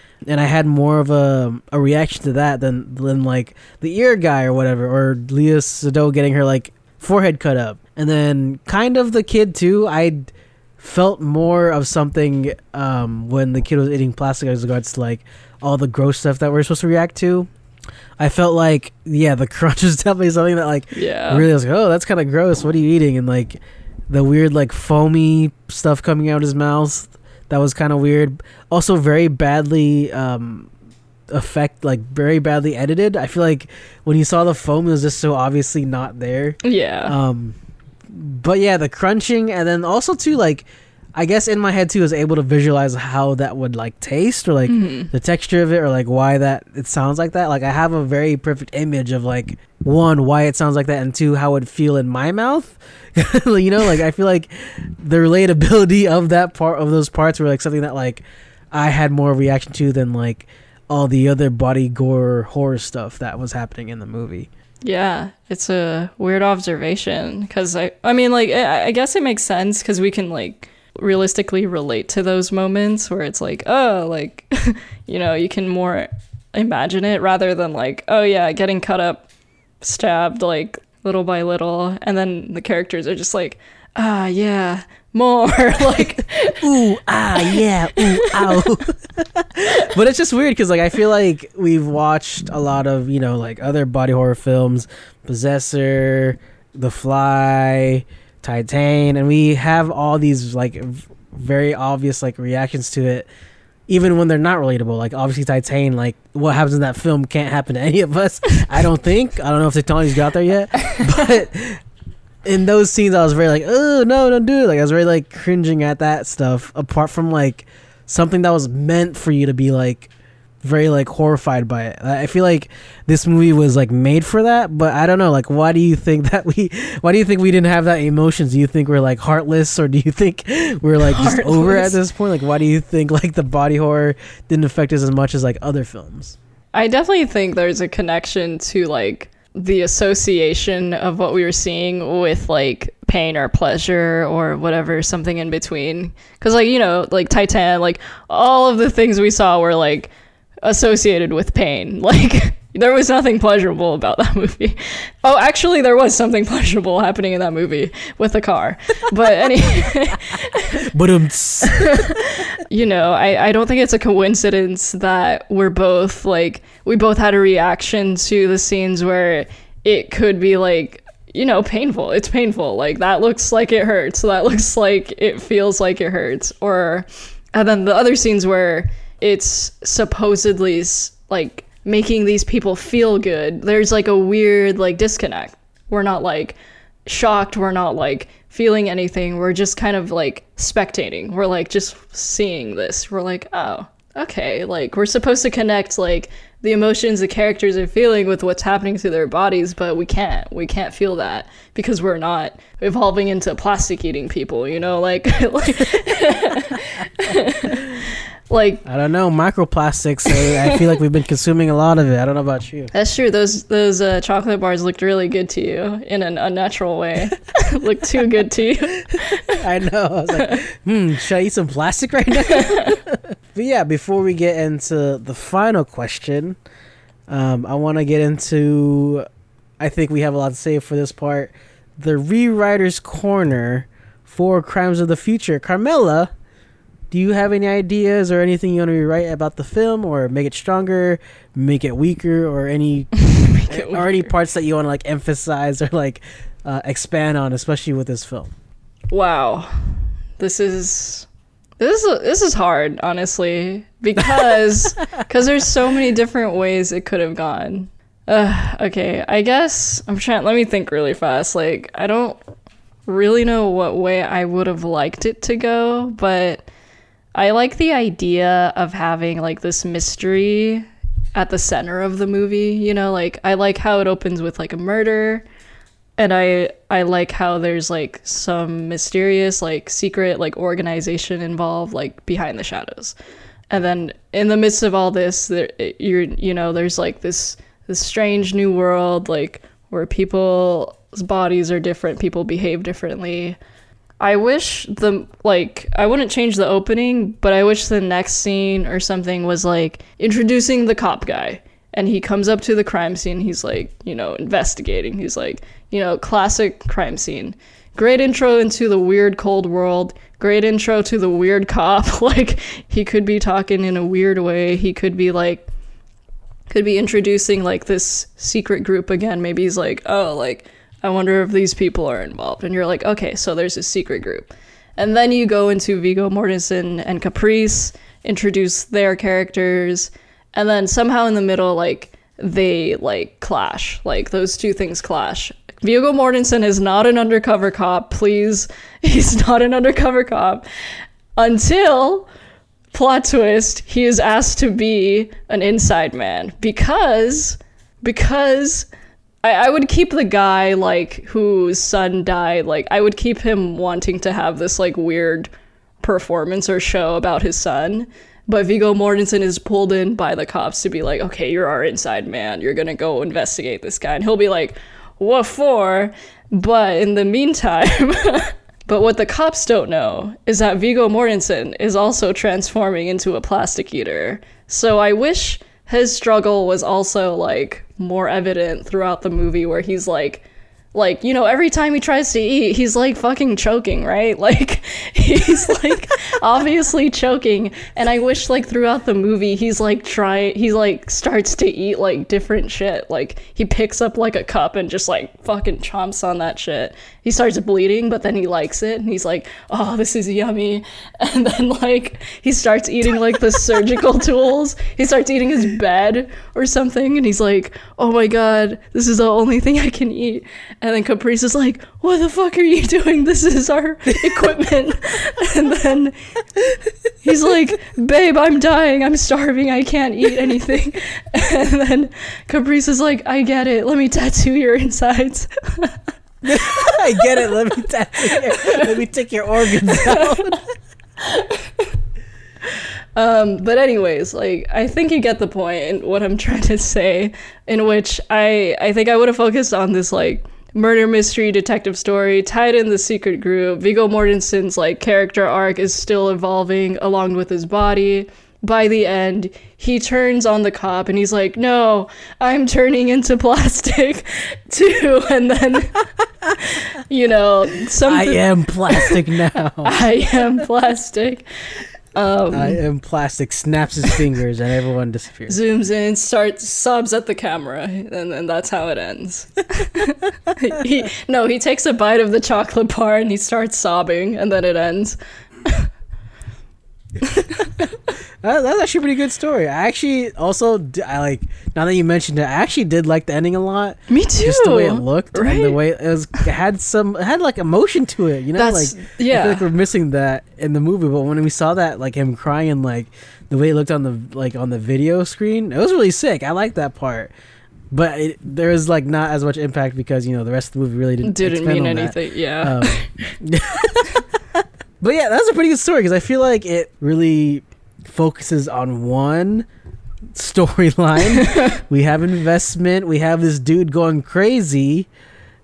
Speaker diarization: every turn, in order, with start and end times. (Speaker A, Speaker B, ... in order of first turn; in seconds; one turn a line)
Speaker A: 0.3-17.5
Speaker A: 18.2-23.6
Speaker B: 20.9-21.5
Speaker A: 24.1-30.7
Speaker A: 31.3-37.6
Speaker B: 36.6-37.1
Speaker A: 38.1-64.5
Speaker B: 44.7-45.1
Speaker B: 64.8-79.3
Speaker B: 79.8-86.8
Speaker A: 85.9-103.3
Speaker B: 87.4-88.7
Speaker A: 103.9-111.8
Speaker A: 112.5-120.1
Speaker A: 120.6-136.4
Speaker B: 131.0-132.0
Speaker B: 136.7-150.1
Speaker B: 150.6-160.9
Speaker A: 160.8-162.2
Speaker B: 161.7-208.8
Speaker A: 208.9-212.9
Speaker B: 212.9-219.6
Speaker A: 219.5-226.6
Speaker B: 220.3-220.6
Speaker B: 222.4-223.0
Speaker A: 227.3-229.3
Speaker A: 229.8-236.3
Speaker A: 237.1-248.5
Speaker B: 243.2-244.3
Speaker B: 249.1-251.3
Speaker B: 251.8-262.4
Speaker B: 263.1-266.7
Speaker B: 267.4-275.4
Speaker B: 276.2-283.1
Speaker B: 283.7-293.6
Speaker B: 294.2-315.7
Speaker B: 316.7-340.6
Speaker B: 341.4-342.3
Speaker B: 342.9-348.9
Speaker B: 349.4-355.5
Speaker B: 356.0-416.2
Speaker B: 417.2-426.0
Speaker A: 426.4-430.6
Speaker B: 426.6-427.6
Speaker B: 428.3-428.9
Speaker B: 429.9-430.6
Speaker B: 431.2-431.9
Speaker B: 433.2-459.2
Speaker A: 458.0-460.0
Speaker B: 459.8-461.4
Speaker B: 462.1-462.8
Speaker A: 462.5-465.6
Speaker B: 465.5-475.9
Speaker B: 477.2-477.7
Speaker A: 478.4-497.3
Speaker B: 484.1-485.8
Speaker B: 488.6-489.7
Speaker A: 497.9-509.7
Speaker B: 501.2-503.3
Speaker A: 510.3-515.1
Speaker B: 511.2-511.8